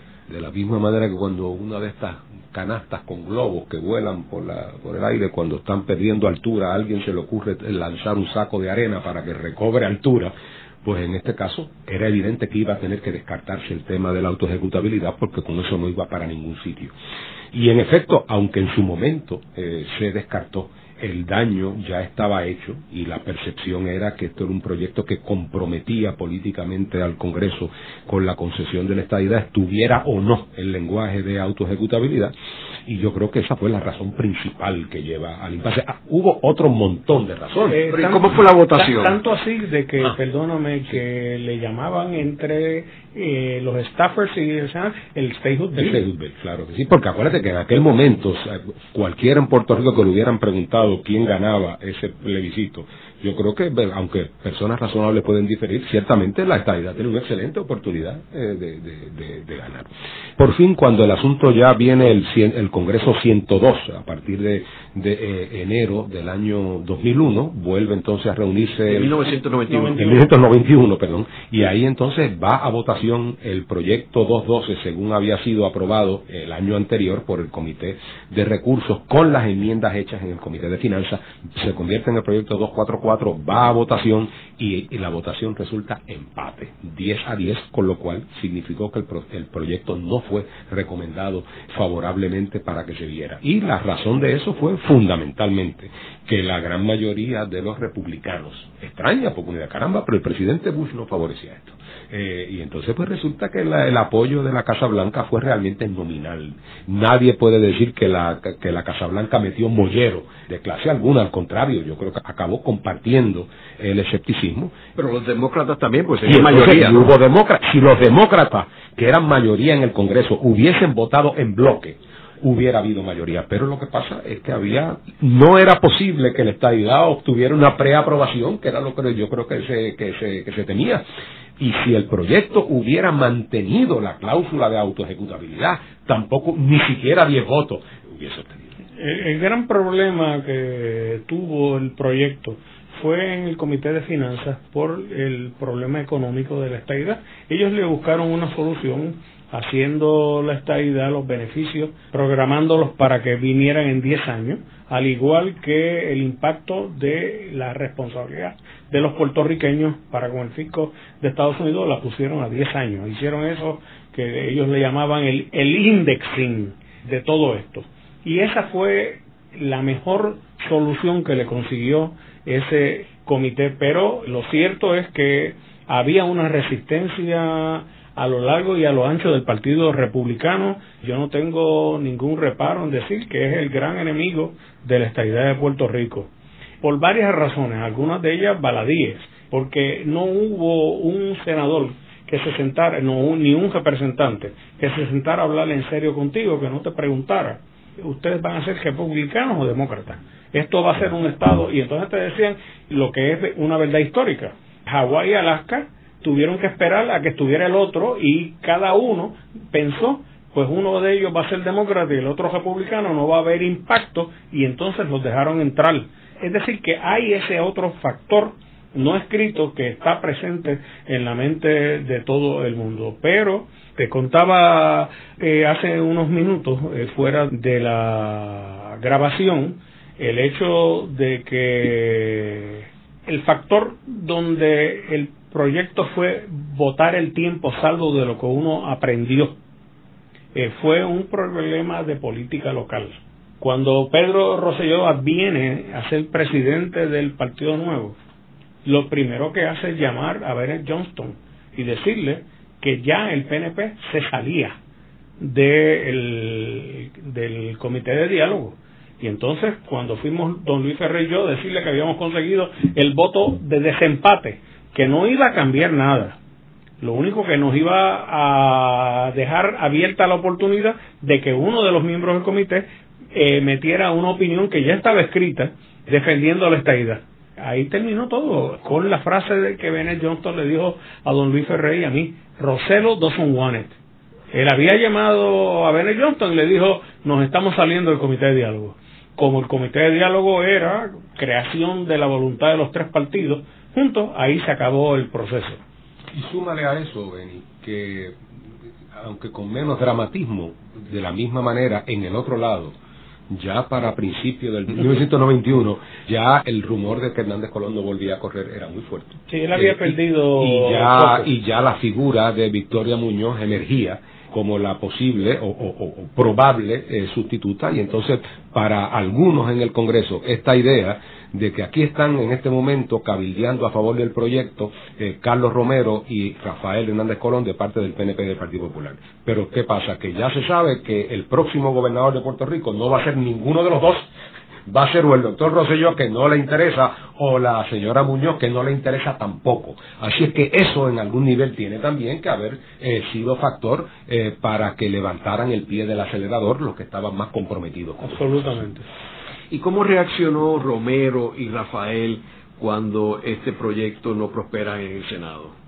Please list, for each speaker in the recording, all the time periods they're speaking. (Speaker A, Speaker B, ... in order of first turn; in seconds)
Speaker A: 0.3-10.3, 10.8-16.9, 17.5-32.3, 32.9-37.8, 45.7-69.2, 69.7-114.8, 116.2-131.0, 131.6-138.7, 296.3-298.4, 299.1-302.9, 303.5-334.3, 334.9-348.7
Speaker B: 37.7-46.0, 139.0-186.3, 186.8-239.6, 240.5-248.2, 248.8-254.8, 255.4-266.4, 267.0-284.0, 284.5-295.8, 309.5-311.5, 348.2-349.1
Speaker C: 37.9-39.2, 68.9-70.3, 115.0-117.1, 349.7-355.7